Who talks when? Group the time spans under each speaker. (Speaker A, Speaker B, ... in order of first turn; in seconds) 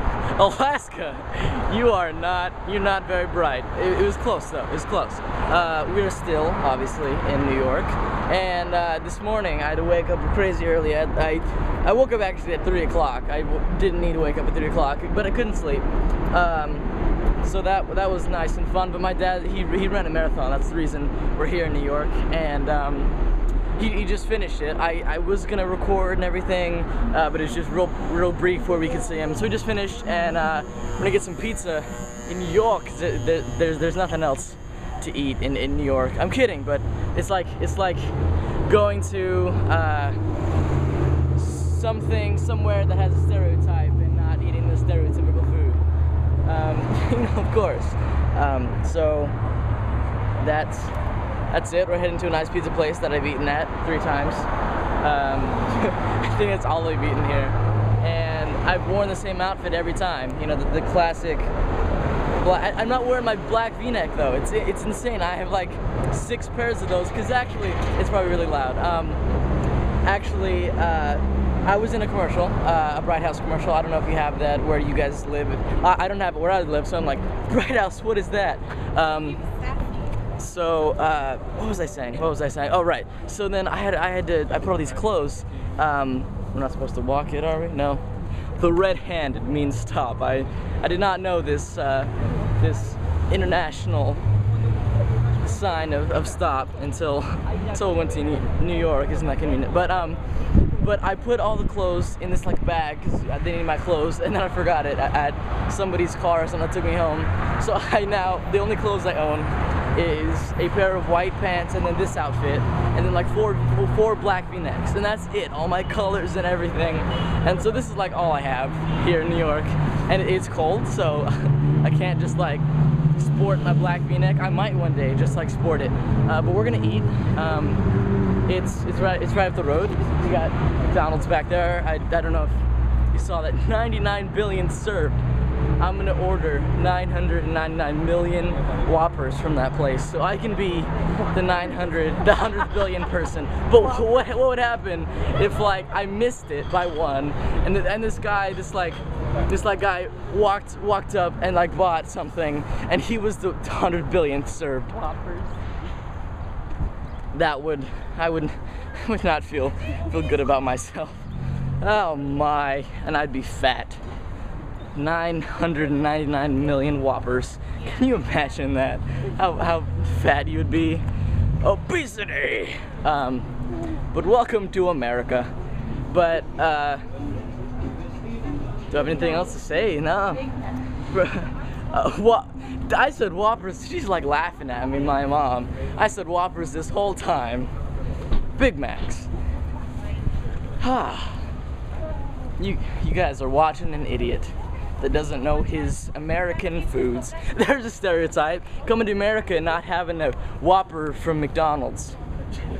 Speaker A: 0.3-16.9, 17.4-23.1, 23.8-40.2, 41.3-45.8, 46.4-49.4, 50.4-51.0, 51.5-61.5, 62.3-69.2, 70.0-79.6, 80.4-88.0, 88.6-94.2, 95.4-127.8, 128.5-135.2, 135.8-155.3, 157.3-161.3, 161.8-164.0, 164.9-171.1, 171.6-173.5, 174.1-175.5, 176.1-177.0, 178.9-180.6, 181.1-187.7, 188.6-189.3, 190.8-191.5, 192.6-202.2